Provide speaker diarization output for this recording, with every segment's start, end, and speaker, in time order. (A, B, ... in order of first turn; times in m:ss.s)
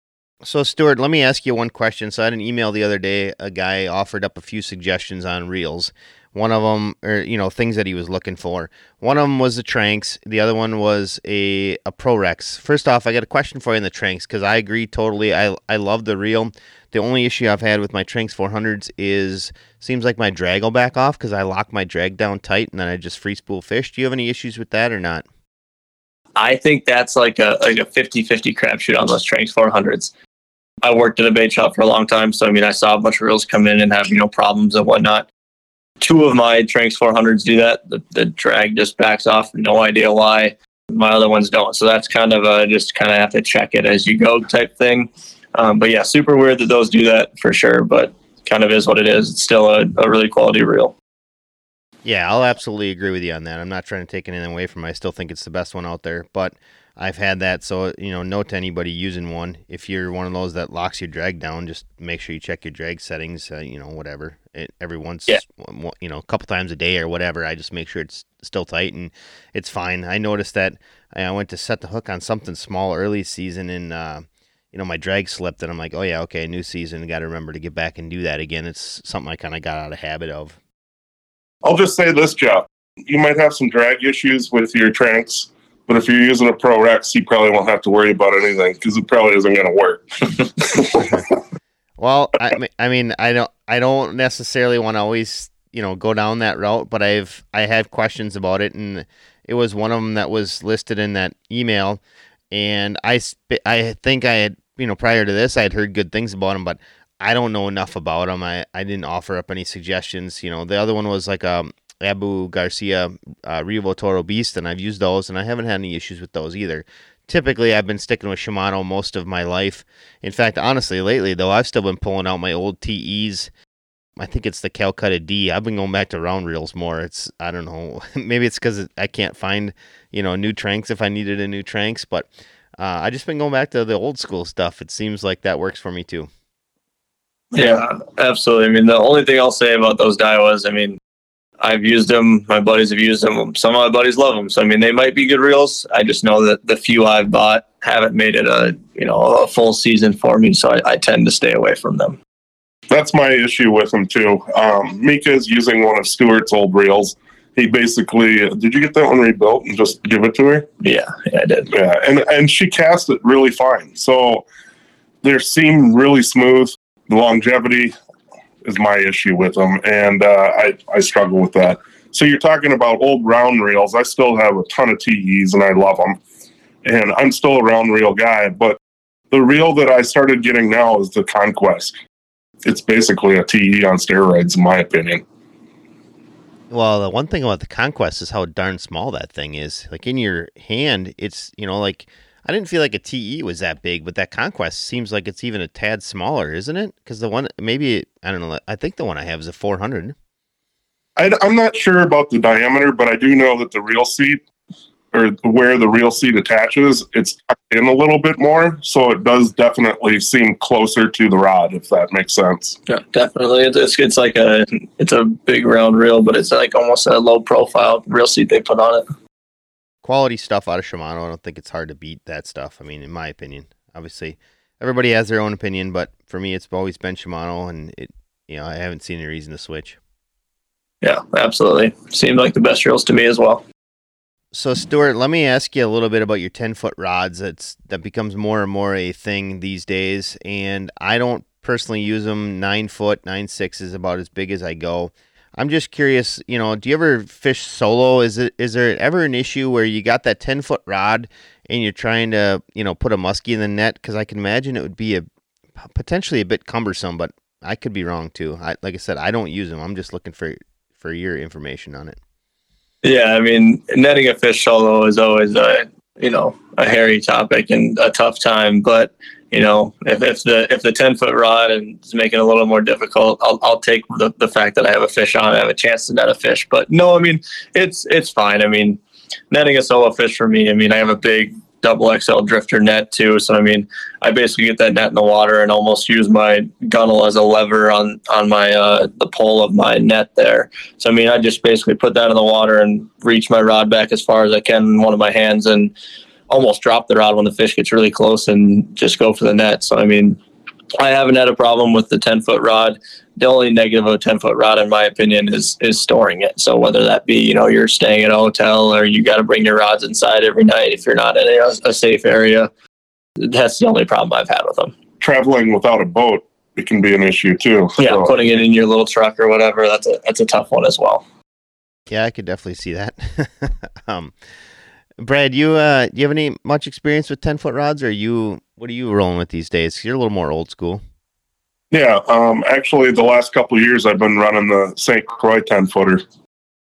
0:00.4-0:25.2 A
0:26.4-0:30.1 B
0:30.8-0:35.3 B
0:36.0-0:50.9 B
0:52.0-1:20.6 A
1:21.6-1:31.3 C
1:32.0-1:42.0 A
1:42.5-2:03.5 A
2:04.2-2:12.3 A
2:12.8-2:16.3 A
2:17.5-2:21.0 B
2:21.6-2:32.2 B
2:32.9-2:40.7 C
2:40.8-2:41.7 B
2:41.7-2:44.4 C
2:45.2-2:47.9 C
2:48.6-2:56.2 C
2:56.8-2:58.8 C
2:59.3-3:01.9 C
3:02.6-3:05.2 C
3:06.7-3:20.1 A
3:21.2-3:24.4 C
3:25.1-3:32.8 C
3:32.9-3:39.0 B
3:40.0-3:50.0 A
3:51.0-3:53.6 B
3:54.5-4:15.2 A
4:15.9-4:22.2 A
4:23.0-4:39.0 B
4:39.5-4:55.9 B
4:56.5-5:00.4 B
5:01.0-5:12.7 B
5:13.4-5:14.9 B
5:15.2-5:18.3 C
5:18.0-5:21.2 B
5:22.1-5:24.3 A
5:25.2-5:31.0 A
5:31.9-5:36.2 C